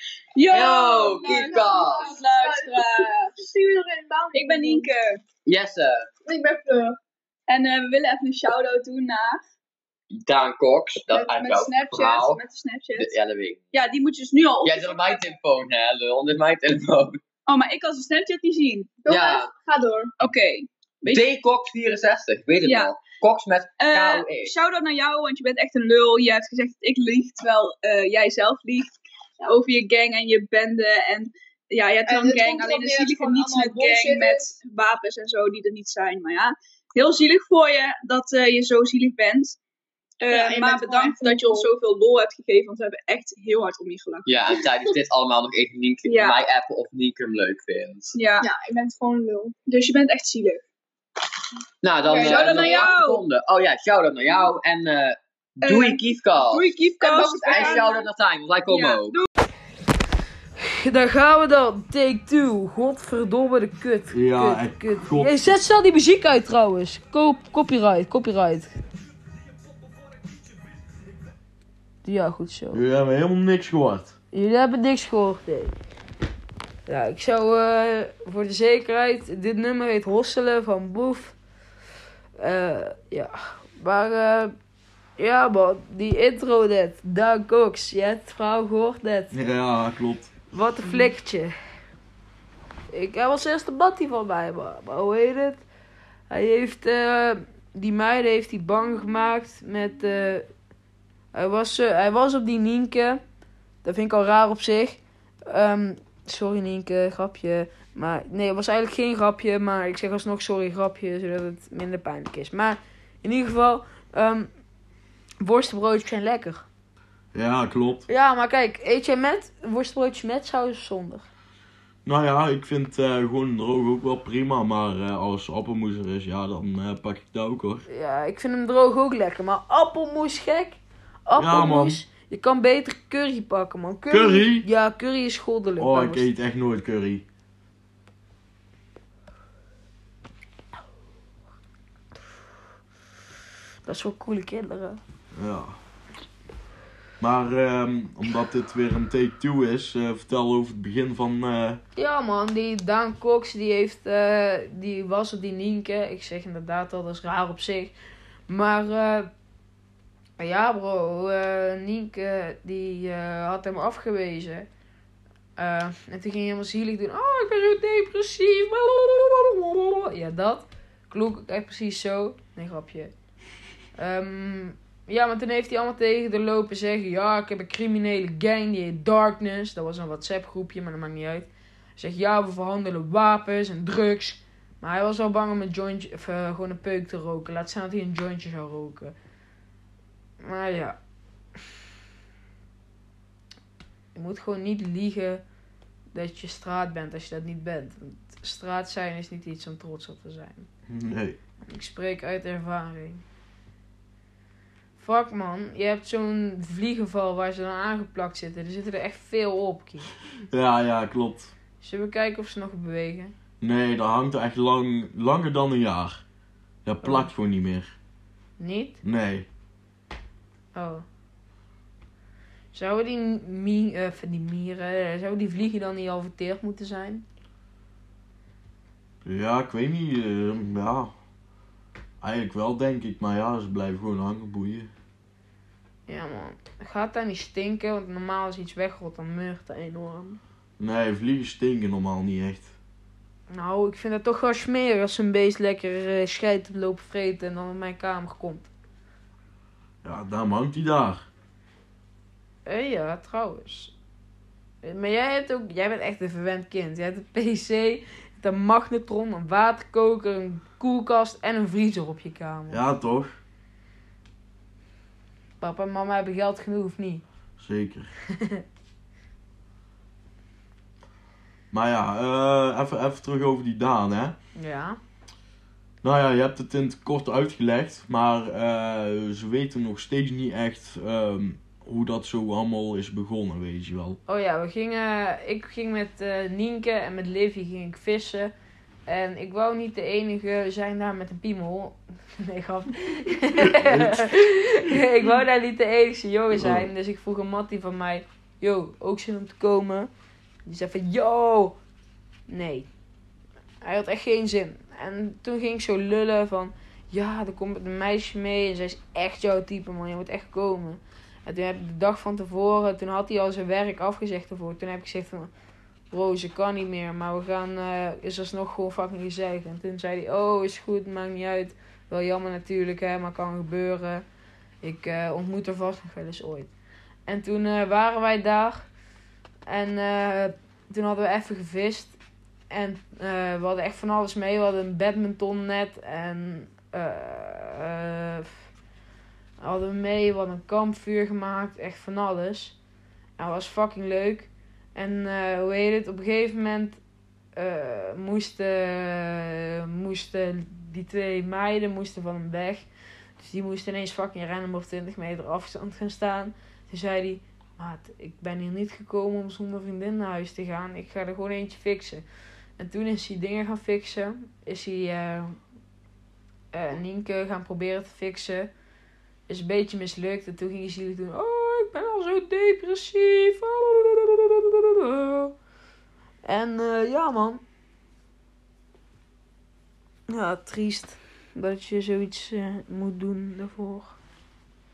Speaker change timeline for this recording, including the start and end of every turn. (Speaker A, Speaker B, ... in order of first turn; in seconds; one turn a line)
Speaker A: 0.3-3.4
Speaker B: 0.5-2.2
Speaker C: 1.2-4.9
Speaker A: 4.3-5.2
Speaker B: 5.5-6.1
Speaker C: 6.3-7.0
Speaker A: 7.5-9.4
Speaker B: 10.2-12.4
Speaker C: 11.1-11.8
Speaker A: 11.4-13.1
Speaker B: 13.0-13.6
Speaker A: 13.7-15.3
Speaker B: 14.6-17.2
Speaker A: 17.5-19.0
Speaker C: 19.0-20.1
Speaker B: 19.1-19.5
Speaker A: 20.2-21.3
Speaker B: 21.0-24.5
Speaker A: 22.6-22.9
Speaker A: 23.8-39.6
Speaker C: 32.0-34.5
Speaker A: 40.2-45.0
Speaker C: 40.3-41.7
Speaker B: 44.3-48.2
Speaker A: 46.1-46.4
Speaker A: 48.1-48.5
Speaker C: 48.4-49.6
Speaker A: 49.7-50.6
Speaker B: 51.8-56.7
Speaker C: 52.0-52.9
Speaker A: 52.2-53.2
Speaker A: 55.6-57.9
Speaker C: 57.0-58.1
Speaker B: 57.5-59.2
Speaker A: 58.7-59.3
Speaker D: 60.6-68.7
Speaker E: 64.1-65.5
Speaker D: 72.0-72.8
Speaker E: 72.7-74.2
Speaker D: 74.3-75.7
Speaker D: 76.9-81.4
Speaker D: 82.4-84.5
Speaker D: 85.2-89.3
Speaker E: 89.3-90.3
Speaker D: 90.5-91.5
Speaker D: 92.9-95.7
Speaker D: 96.3-100.5
Speaker D: 101.3-103.2
Speaker D: 103.8-114.5
Speaker D: 115.4-116.7
Speaker E: 117.3-118.1
Speaker D: 118.1-121.3
Speaker E: 122.0-127.8
Speaker D: 127.9-136.3
Speaker E: 131.4-132.0
Speaker E: 134.1-134.7
Speaker E: 135.8-137.2
Speaker D: 143.9-145.0
Speaker E: 145.3-145.8
Speaker E: 147.2-151.8
Speaker D: 152.0-157.9
Speaker D: 158.5-159.3
Speaker D: 160.4-164.7
Speaker D: 165.6-173.1
Speaker D: 174.0-189.2
Speaker D: 190.4-191.0
Speaker D: 194.2-195.4
Speaker D: 196.1-200.7
Speaker E: 200.9-201.4
Speaker D: 201.6-203.2
Speaker D: 205.0-210.1
Speaker E: 210.5-211.5
Speaker D: 211.8-213.3
Speaker E: 213.6-216.2
Speaker E: 216.8-217.9
Speaker D: 217.0-217.3
Speaker D: 218.6-219.0
Speaker E: 219.0-219.5
Speaker D: 220.8-221.1
Speaker D: 222.7-227.2
Speaker E: 229.2-231.1
Speaker E: 232.2-234.9
Speaker D: 236.1-240.4
Speaker E: 240.8-242.7
Speaker D: 243.5-248.7
Speaker E: 250.0-251.3
Speaker D: 252.7-253.9
Speaker D: 254.8-262.8
Speaker E: 262.7-263.4
Speaker D: 265.6-267.2
Speaker E: 267.6-268.1
Speaker D: 268.3-268.6
Speaker E: 271.7-274.4
Speaker D: 274.6-275.0
Speaker E: 276.0-284.2
Speaker D: 284.3-288.5
Speaker D: 289.1-300.1
Speaker E: 293.5-295.0
Speaker E: 296.5-296.9
Speaker D: 300.7-301.8
Speaker D: 302.5-302.9
Speaker D: 303.8-315.5
Speaker D: 316.1-324.2
Speaker D: 324.8-326.7
Speaker D: 327.3-328.9
Speaker D: 329.7-332.2
Speaker D: 332.7-338.5
Speaker D: 339.6-342.8
Speaker D: 343.4-347.0
Speaker D: 347.6-352.9
Speaker D: 353.4-362.3
Speaker D: 362.8-365.6
Speaker D: 366.7-368.7
Speaker D: 369.5-375.6
Speaker D: 376.4-377.6
Speaker D: 380.3-384.2